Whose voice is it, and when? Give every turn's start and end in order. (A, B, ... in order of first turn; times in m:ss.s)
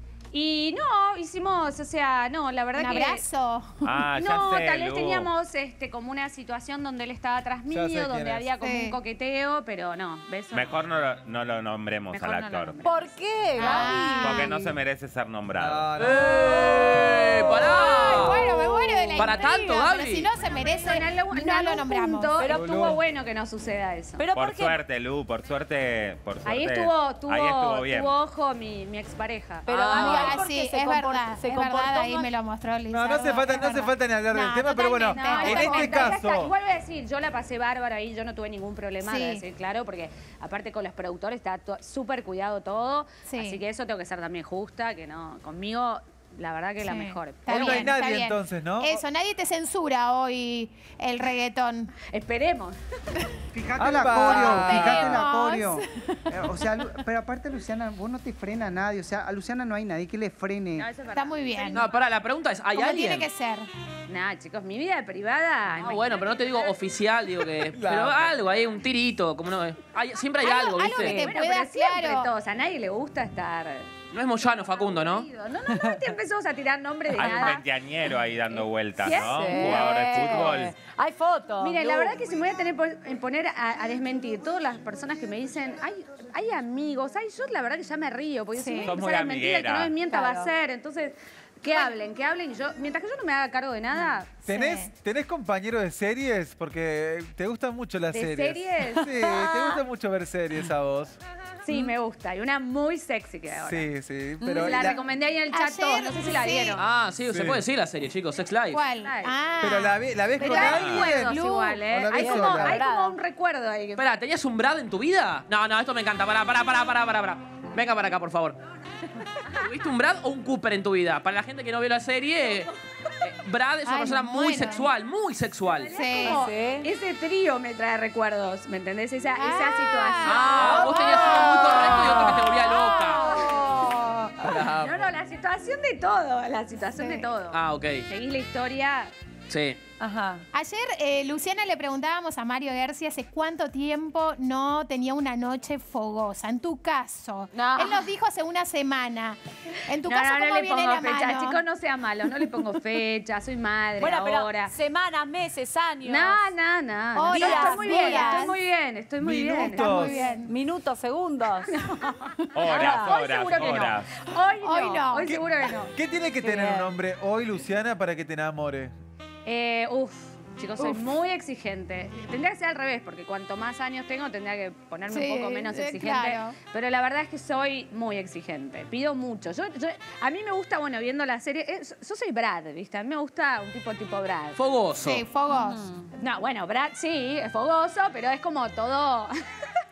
0:00.3-0:03.2 A
0:02.7-0:04.0 B
0:03.8-0:05.3 C
0:04.1-0:10.8 A
0:07.7-0:08.5 D
0:08.6-0:09.0 B
0:10.5-0:12.8 C
0:12.1-0:14.0 A
0:12.8-0:14.8 E
0:13.6-0:14.5 B
0:14.2-0:15.9 C
0:15.6-0:16.2 D
0:16.0-0:20.3 F
0:17.5-0:22.4 B
0:20.8-0:24.2 A
0:22.4-0:22.8 E
0:22.5-0:23.0 D
0:24.2-0:24.8 E
0:24.3-0:28.2 C
0:26.4-0:30.4 A
0:29.6-0:32.3 E
0:29.9-0:36.2 B
0:32.9-0:36.5 D
0:35.0-0:47.9 A
0:39.0-0:39.4 B
0:43.3-0:43.6 B
0:46.8-0:51.9 B
0:47.5-0:48.9 D
0:52.1-0:52.8 A
0:53.5-1:00.9 G
0:53.8-0:55.1 D
0:54.2-0:56.2 B
1:00.8-1:01.9 A
1:01.1-1:01.9 B
1:01.7-1:03.3 F
1:02.7-1:03.7 B
1:04.1-1:06.2 A
1:05.8-1:11.2 F
1:07.7-1:08.3 D
1:10.4-1:12.3 B
1:11.0-1:11.4 E
1:11.2-1:13.9 A
1:14.1-1:15.2 F
1:14.4-1:17.6 A
1:17.2-1:20.8 C
1:17.2-1:17.4 E
1:18.5-1:20.7 A
1:19.2-1:22.2 E
1:21.6-1:34.3 A
1:28.5-1:29.0 B
1:28.8-1:30.0 C
1:30.0-1:30.5 E
1:34.4-1:34.9 B
1:34.4-1:41.2 D
1:38.1-1:39.1 A
1:39.4-1:39.8 E
1:41.6-1:43.9 A
1:43.5-1:45.0 D
1:44.4-1:45.0 E
1:44.5-1:46.8 A
1:45.5-1:46.8 B
1:46.8-1:48.8 F
1:47.3-1:47.6 D
1:48.7-1:51.7 B
1:49.0-1:49.3 A
1:49.6-1:52.8 D
1:50.4-1:54.0 A
1:50.7-1:51.0 C
1:52.1-1:53.2 E
1:54.0-1:58.6 F
1:59.4-2:05.9 F
2:03.8-2:04.9 B
2:05.8-2:12.2 A
2:05.9-2:06.5 B
2:06.2-2:06.9 E
2:09.4-2:14.3 B
2:10.2-2:13.3 F
2:13.3-2:13.7 A
2:14.4-2:15.1 D
2:14.6-2:19.1 A
2:16.9-2:17.3 B
2:17.5-2:18.0 F
2:19.5-2:19.8 F
2:20.0-2:20.4 E
2:20.5-2:31.6 B
2:27.5-2:28.1 A
2:30.0-2:34.7 A
2:34.0-2:36.5 E
2:36.0-2:40.4 A
2:37.2-2:38.6 B
2:37.3-2:38.4 E
2:39.2-2:40.2 D
2:39.6-2:40.5 B
2:40.3-2:41.7 E
2:41.7-2:45.9 A
2:42.5-2:44.1 C
2:42.6-2:43.7 E
2:44.6-2:45.3 B
2:45.2-2:48.9 D
2:46.4-2:46.9 E
2:49.4-3:04.6 A
2:55.1-2:56.6 B
3:04.6-3:05.3 F
3:05.0-3:05.9 B
3:05.5-3:06.1 E
3:06.2-3:09.3 A